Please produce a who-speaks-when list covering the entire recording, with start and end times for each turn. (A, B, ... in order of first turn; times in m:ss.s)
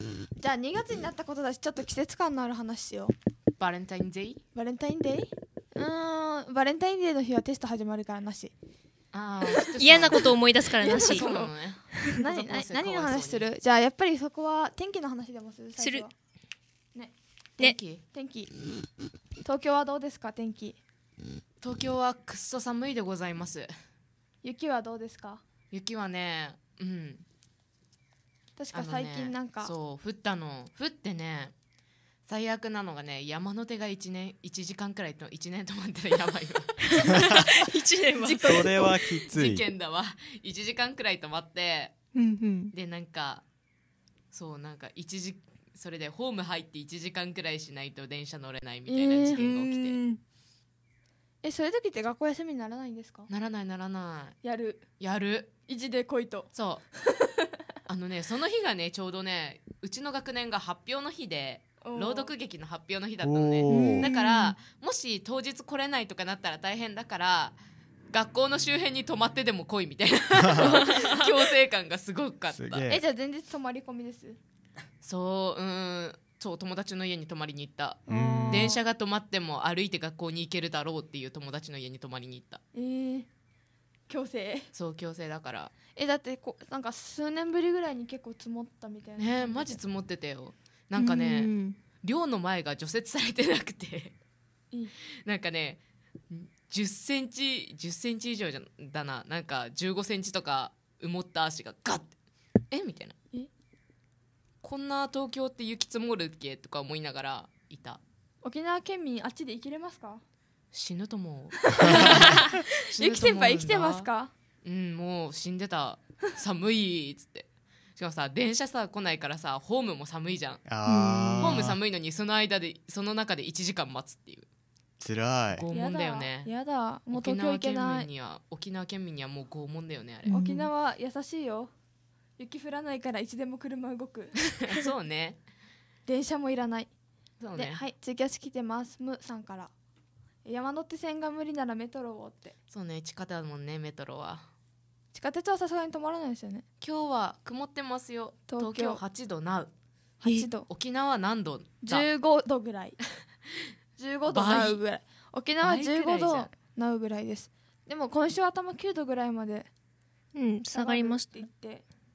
0:00.4-0:03.1 A
0:03.6-0:04.4 B
0:04.6-0:08.5 A
0:09.1-0:13.4 B
0:09.8-0:11.2 C
0:10.8-0:11.5 A
0:12.1-0:16.1 A
0:15.8-0:16.0 C
0:17.6-0:18.0 B
0:18.1-0:18.5 A
0:19.4-0:20.8 A
0:21.6-0:23.7 B
0:24.4-0:25.4 A
0:25.7-0:27.2 B
0:28.6-0:29.7 A
0:28.7-0:31.5 B
0:32.3-0:37.3 B
0:36.9-0:38.9 C
0:37.1-0:37.6 D
0:38.3-0:39.6 D
0:39.3-0:42.0 B
0:42.1-0:42.7 C
0:42.7-0:43.4 B
0:44.3-0:50.0 B
0:48.9-0:49.4 A
0:49.3-0:50.2 C
0:51.4-0:53.3 A
0:53.3-0:54.4 B
0:54.4-0:54.8 A
0:55.0-0:55.5 B
0:55.7-0:56.5 A
0:56.5-0:56.8 B
0:57.2-0:57.5 A
0:57.9-1:07.6 B
1:01.8-1:02.3 A
1:03.2-1:04.1 D
1:03.7-1:04.6 C
1:08.1-1:12.9 B
1:10.3-1:10.9 D
1:10.6-1:11.3 C
1:12.5-1:13.0 D
1:12.9-1:14.4 A
1:15.0-1:22.6 B
1:18.1-1:18.7 D
1:18.1-1:18.8 C
1:22.7-1:23.3 A
1:24.1-1:24.7 A
1:24.7-1:25.7 B
1:26.0-1:29.8 A
1:29.2-1:34.2 B
1:31.0-1:31.8 C
1:35.2-1:42.1 B
1:42.7-1:43.2 B
1:44.6-1:48.0 B
1:48.4-1:50.2 A
1:50.7-1:54.1 B
1:51.7-1:54.3 A
1:51.8-1:52.5 D
1:54.6-2:00.6 B
2:00.7-2:01.8 D
2:00.9-2:01.6 C
2:01.4-2:04.5 B
2:05.0-2:05.7 D
2:05.5-2:06.5 B
2:05.7-2:08.1 A
2:07.1-2:10.4 B
2:10.2-2:10.7 C
2:10.3-2:11.7 A
2:12.4-2:14.4 A
2:14.7-2:15.4 B
2:16.1-2:16.9 A
2:17.4-2:17.8 B
2:17.6-2:19.7 A
2:20.4-2:22.6 A
2:22.7-2:24.5 B
2:25.1-2:26.6 A
2:26.8-2:29.7 B
2:28.5-2:29.0 A
2:30.2-2:30.7 A
2:30.7-2:32.1 B
2:31.8-2:33.0 A
2:34.0-2:39.7 A
2:34.3-2:34.8 B
2:35.6-2:36.5 B
2:40.3-2:41.3 C
2:40.7-2:41.8 A